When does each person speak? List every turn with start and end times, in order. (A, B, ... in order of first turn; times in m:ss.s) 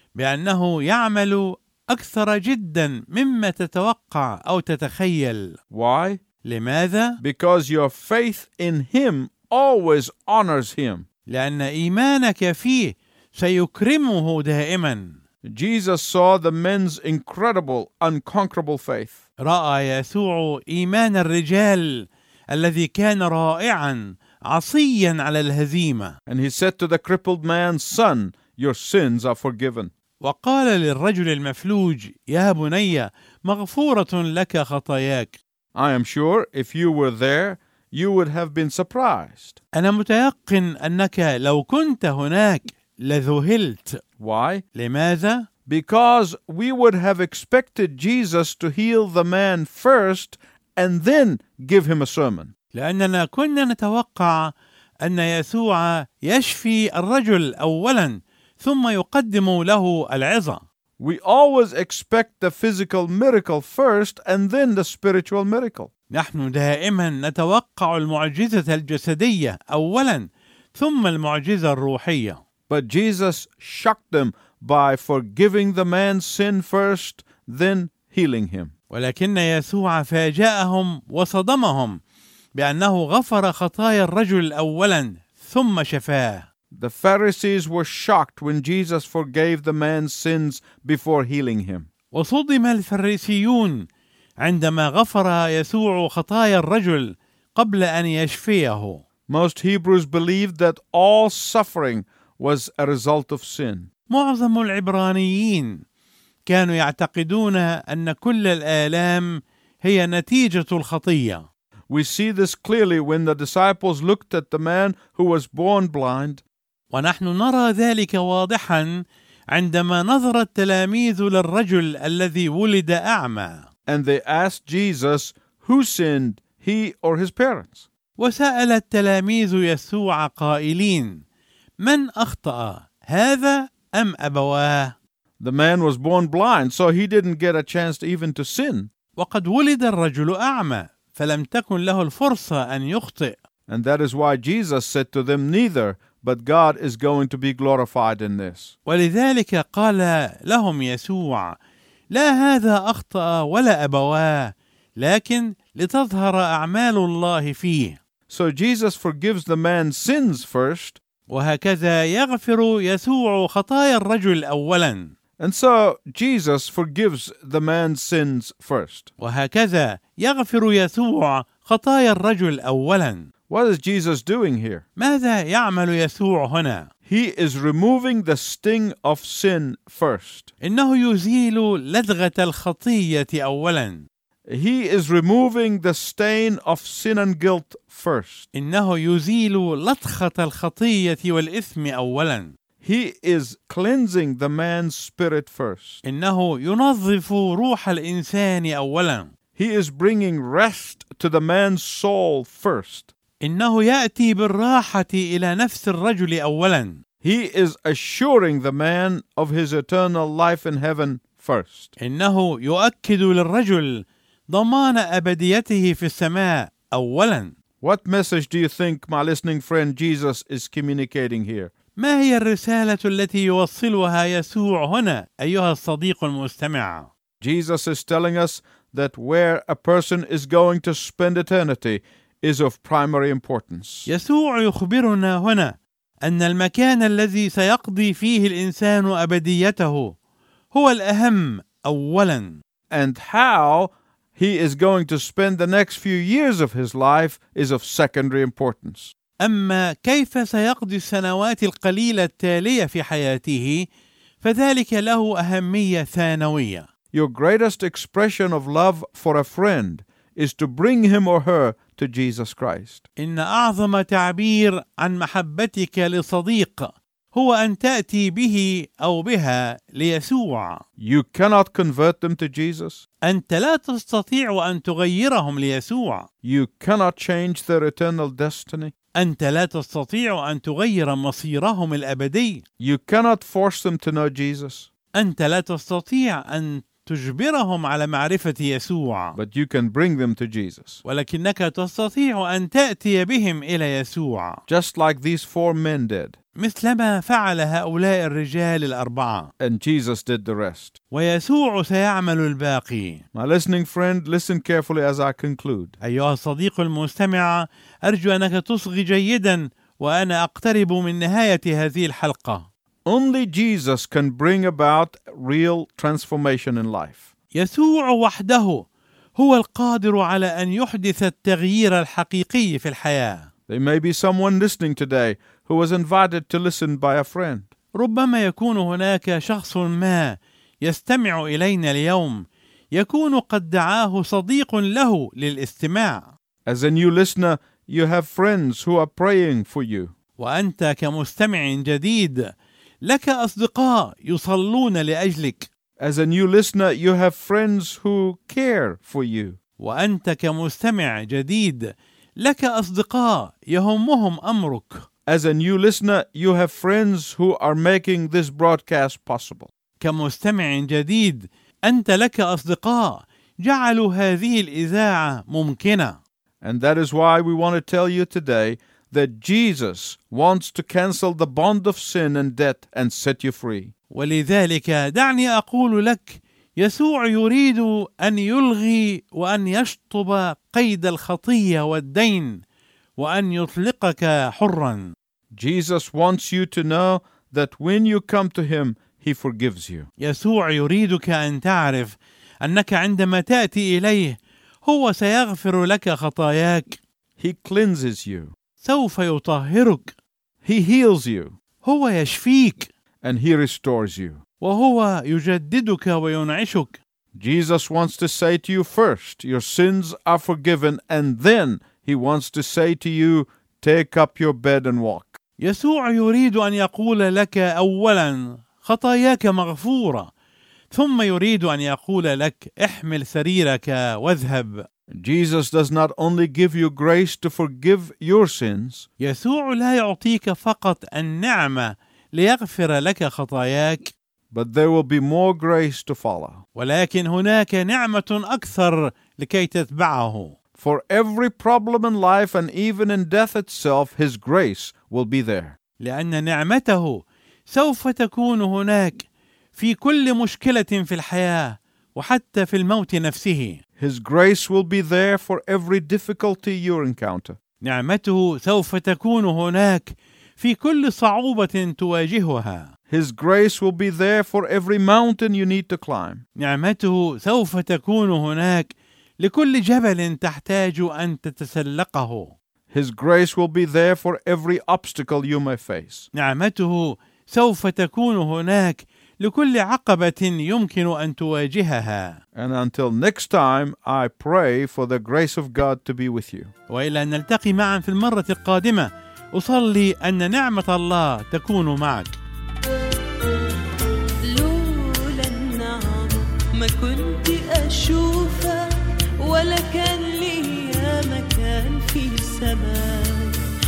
0:00.1-0:05.6 A
0:05.7-0:06.2 B
0:06.4-0:07.2 A
0:07.2-0:11.0 B
0:11.3-0:15.2 A
0:15.4-0:19.2 B
0:19.4-0:26.2 A
0:26.3-0:29.9 B
0:30.2-0:35.4 A
0:35.7-0:39.6 B
0:39.7-0:44.0 A
0:44.2-0:44.6 B
0:44.7-0:45.5 A
0:45.7-0:52.5 B
0:52.7-1:00.6 A
1:01.0-1:05.9 B
1:06.1-1:12.4 A
1:12.7-1:18.7 B
1:18.9-1:22.0 A
1:22.5-1:26.5 A
1:26.7-1:31.9 B
1:32.1-1:33.9 A
1:34.4-1:39.0 A
1:39.3-1:43.9 B
1:44.1-1:45.8 A
1:46.4-1:51.4 A
1:51.9-1:56.4 B
1:56.9-2:03.7 A
2:03.9-2:07.8 B
2:08.2-2:11.2 A
2:11.8-2:14.9 A
2:15.4-2:18.9 B
2:19.2-2:23.4 A
2:23.7-2:28.7 B
2:28.8-2:31.6 A
2:32.1-2:38.0 A
2:38.3-2:41.0 B
2:41.3-2:45.1 A
2:45.4-2:49.1 B
2:49.2-2:53.3 A
2:53.5-2:54.8 B
2:55.0-2:56.9 A
2:57.0-3:00.5 B
3:00.6-3:04.0 A
3:04.5-3:08.4 B
3:08.5-3:12.5 A
3:12.8-3:16.0 B
3:16.0-3:19.3 A
3:19.5-3:23.1 B
3:23.4-3:27.0 A
3:27.2-3:31.9 B
3:32.0-3:37.5 A
3:37.8-3:41.7 B
3:42.0-3:47.1 A
3:47.4-3:54.1 B
3:54.1-4:00.2 A
4:00.7-4:02.6 A
4:02.9-4:09.1 B
4:09.4-4:13.9 A
4:14.4-4:16.9 A
4:17.1-4:23.0 B
4:23.2-4:30.8 A
4:31.0-4:33.0 B
4:33.2-4:36.3 A
4:36.4-4:38.9 B
4:39.1-4:42.6 A
4:42.8-4:44.9 B
4:45.1-4:49.4 A
4:49.3-4:51.0 B
4:51.0-4:54.6 A
4:54.7-4:56.3 B
4:56.6-4:59.5 A
4:59.6-5:01.0 B
5:01.1-5:03.2 A
5:03.3-5:05.9 B
5:06.0-5:12.6 A
5:13.0-5:17.2 B
5:17.5-5:23.5 A
5:23.7-5:27.7 B
5:27.9-5:36.3 A
5:36.6-5:40.1 B
5:40.4-5:42.5 A
5:43.0-5:45.7 A
5:46.0-5:49.6 B
5:49.8-5:55.0 A
5:55.3-5:59.7 B
6:00.0-6:06.2 A
6:06.6-6:13.9 B
6:14.1-6:22.6 A
6:23.2-6:25.1 A
6:25.5-6:30.1 B
6:30.2-6:37.0 A
6:37.4-6:38.5 B
6:38.8-6:40.1 A
6:40.6-6:41.6 B
6:41.8-6:42.9 A
6:43.2-6:44.4 B
6:44.6-6:47.0 A
6:47.3-6:55.4 B
6:55.6-7:00.3 A
7:00.9-7:04.9 A
7:05.1-7:09.1 B
7:09.2-7:14.1 A
7:14.5-7:16.6 B
7:16.7-7:20.5 A
7:20.8-7:25.8 B
7:26.0-7:33.8 A
7:34.0-7:37.6 B
7:37.8-7:42.9 A
7:43.1-7:46.4 B
7:46.6-7:52.5 A
7:52.9-7:56.3 B
7:56.3-8:02.4 A
8:02.5-8:06.7 B
8:06.9-8:12.4 A
8:14.4-8:18.8 C
8:19.4-8:23.6 C